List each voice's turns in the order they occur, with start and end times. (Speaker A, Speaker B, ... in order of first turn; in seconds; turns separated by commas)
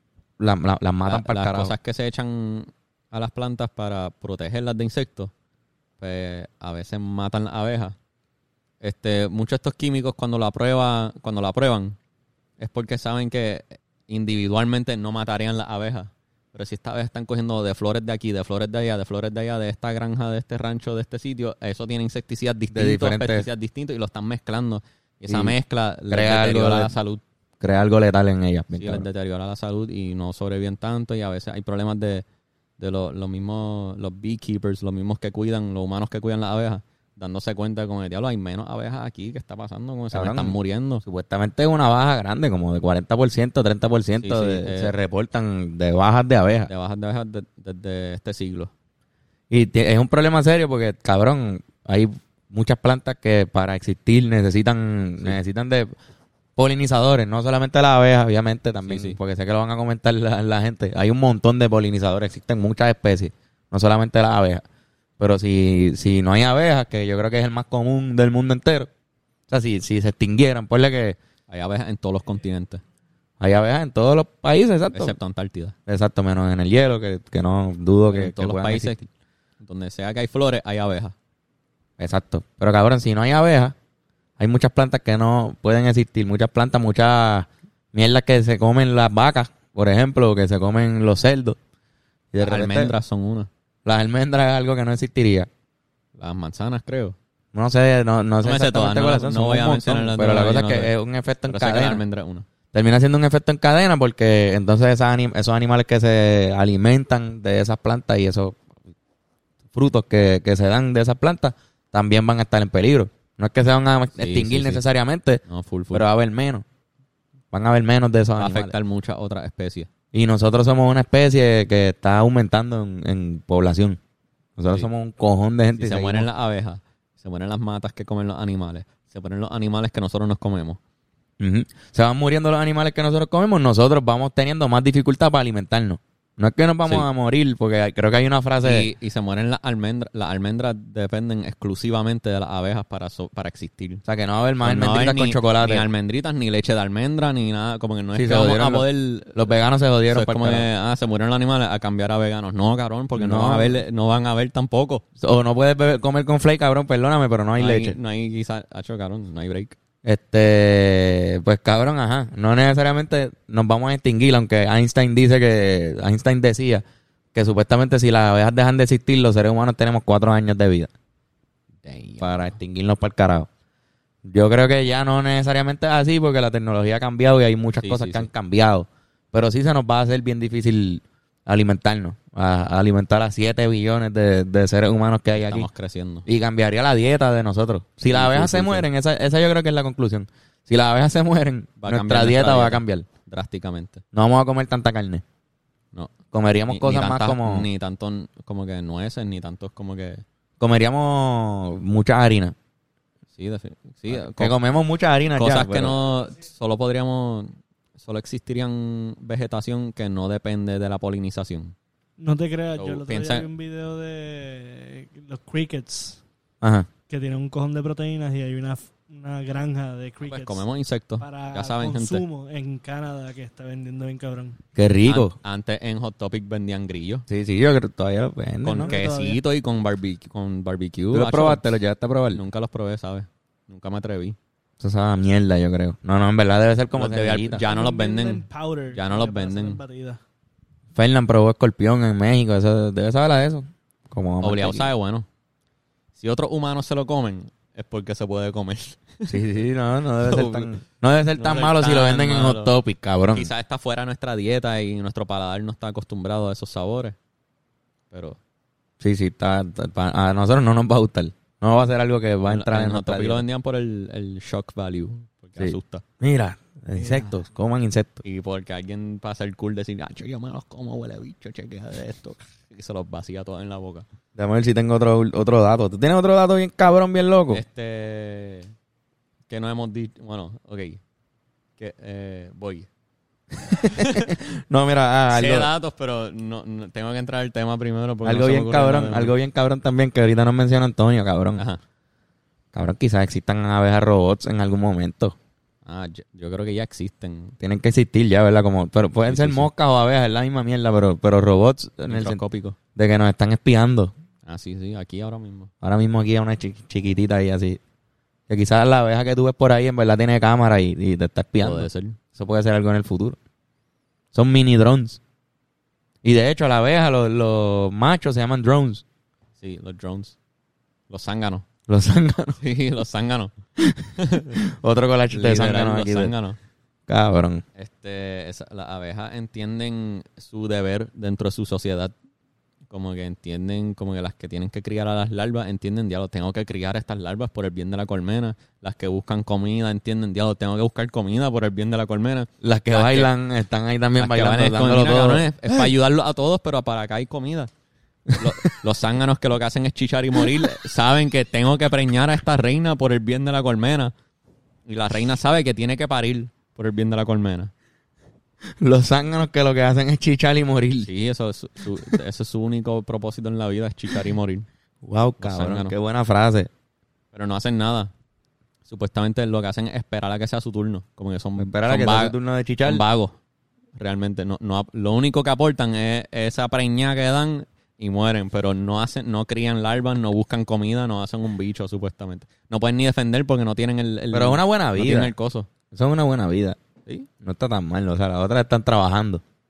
Speaker A: 0.4-1.7, Speaker B: 1.1-5.3, Speaker B: 6.0-8.0, Speaker B: 8.8-12.0, Speaker B: 12.6-27.2, Speaker A: 22.7-23.5, Speaker A: 25.3-25.6, Speaker A: 26.1-26.9, Speaker A: 27.6-29.1, Speaker B: 28.7-32.2, Speaker B: 32.8-41.0, Speaker A: 40.1-46.7, Speaker B: 44.2-44.9, Speaker B: 46.7-48.7, Speaker A: 49.5-55.9, Speaker A: 56.6-64.6, Speaker B: 58.8-59.2, Speaker A: 65.2-68.9, Speaker A: 69.5-71.2, Speaker B: 71.5-72.8, Speaker A: 73.4-75.2, Speaker B: 74.9-75.8, Speaker A: 75.9-79.0, Speaker B: 78.1-79.1, Speaker B: 79.6-81.2, Speaker A: 82.0-83.8, Speaker A: 84.4-91.6, Speaker A: 92.3-92.9, Speaker B: 92.4-93.5, Speaker A: 93.8-95.5, Speaker B: 96.2-97.2, Speaker A: 97.5-102.0, Speaker B: 98.4-101.0, Speaker B: 101.5-102.5, Speaker A: 102.7-108.6, Speaker A: 109.7-116.7, Speaker B: 114.1-114.8, Speaker B: 115.5-116.1, Speaker A: 117.5-118.8, Speaker B: 118.4-119.9, Speaker A: 120.1-124.0, Speaker A: 124.6-126.3, Speaker B: 125.8-130.8, Speaker A: 131.4-138.9, Speaker B: 138.6-144.0, Speaker A: 144.1-145.9, Speaker B: 144.6-149.5, Speaker A: 148.2-150.7, Speaker B: 150.1-155.0, Speaker A: 153.2-153.8, Speaker A: 155.2-158.0, Speaker B: 157.6-159.8, Speaker A: 160.1-170.9, Speaker B: 171.8-172.6, Speaker A: 172.2-173.5, Speaker A: 174.2-185.7, Speaker B: 177.8-178.3, Speaker B: 185.3-186.3, Speaker A: 186.3-193.1, Speaker B: 188.1-188.9, Speaker B: 191.8-194.0, Speaker A: 194.1-195.2, Speaker A: 196.3-197.7, Speaker B: 196.7-200.2, Speaker A: 200.6-202.6, Speaker B: 203.4-204.6, Speaker A: 204.1-206.0, Speaker B: 205.4-211.8, Speaker C: 212.2-216.2, Speaker B: 212.8-213.5, Speaker A: 216.6-216.9, Speaker C: 217.1-220.6, Speaker B: 220.3-222.2, Speaker C: 221.2-224.6, Speaker A: 224.8-225.3, Speaker B: 225.1-227.3, Speaker A: 227.3-228.9, Speaker B: 228.6-231.8, Speaker C: 228.8-229.4, Speaker A: 231.1-232.4, Speaker B: 232.3-234.4, Speaker A: 234.8-237.6, Speaker B: 236.9-239.8, Speaker C: 237.6-240.2, Speaker A: 240.9-244.9, Speaker B: 244.4-245.3, Speaker B: 246.2-249.4, Speaker A: 249.3-253.5, Speaker B: 250.2-250.7, Speaker B: 251.4-252.8, Speaker B: 253.3-257.2, Speaker B: 258.1-258.4, Speaker A: 259.0-263.4, Speaker B: 262.5-266.0, Speaker A: 265.6-268.2, Speaker C: 267.0-267.3, Speaker B: 268.2-274.1, Speaker A: 274.4-277.6, Speaker B: 277.5-278.7, Speaker B: 279.5-281.0, Speaker B: 281.8-282.9, Speaker A: 283.7-285.7, Speaker B: 283.8-284.3, Speaker B: 285.3-289.4, Speaker A: 288.2-291.6, Speaker A: 292.7-295.4, Speaker B: 295.9-297.6, Speaker A: 297.6-302.4, Speaker B: 299.3-299.7, Speaker B: 302.1-302.8, Speaker A: 302.9-304.1, Speaker B: 304.5-305.7, Speaker A: 305.8-307.8, Speaker A: 308.5-313.4, Speaker B: 311.6-312.2, Speaker A: 314.3-315.2, Speaker A: 316.2-319.0, Speaker B: 319.6-320.4, Speaker B: 321.1-321.7, Speaker A: 321.9-322.6, Speaker B: 322.6-323.5, Speaker A: 323.8-326.3, Speaker B: 324.2-324.6, Speaker B: 325.3-326.6, Speaker A: 327.1-327.6, Speaker B: 327.8-332.1, Speaker B: 332.9-343.3, Speaker A: 342.6-345.9, Speaker B: 344.2-347.7, Speaker A: 348.3-348.8, Speaker B: 348.4-354.1, Speaker A: 350.4-350.7, Speaker B: 354.9-357.7, Speaker A: 358.8-361.1, Speaker B: 361.1-364.7, Speaker A: 365.0-366.7, Speaker B: 365.4-365.9, Speaker B: 367.3-368.1, Speaker B: 368.9-373.4, Speaker A: 371.6-373.0, Speaker B: 374.0-385.7, Speaker A: 384.3-385.3, Speaker A: 385.9-386.8, Speaker A: 387.4-389.4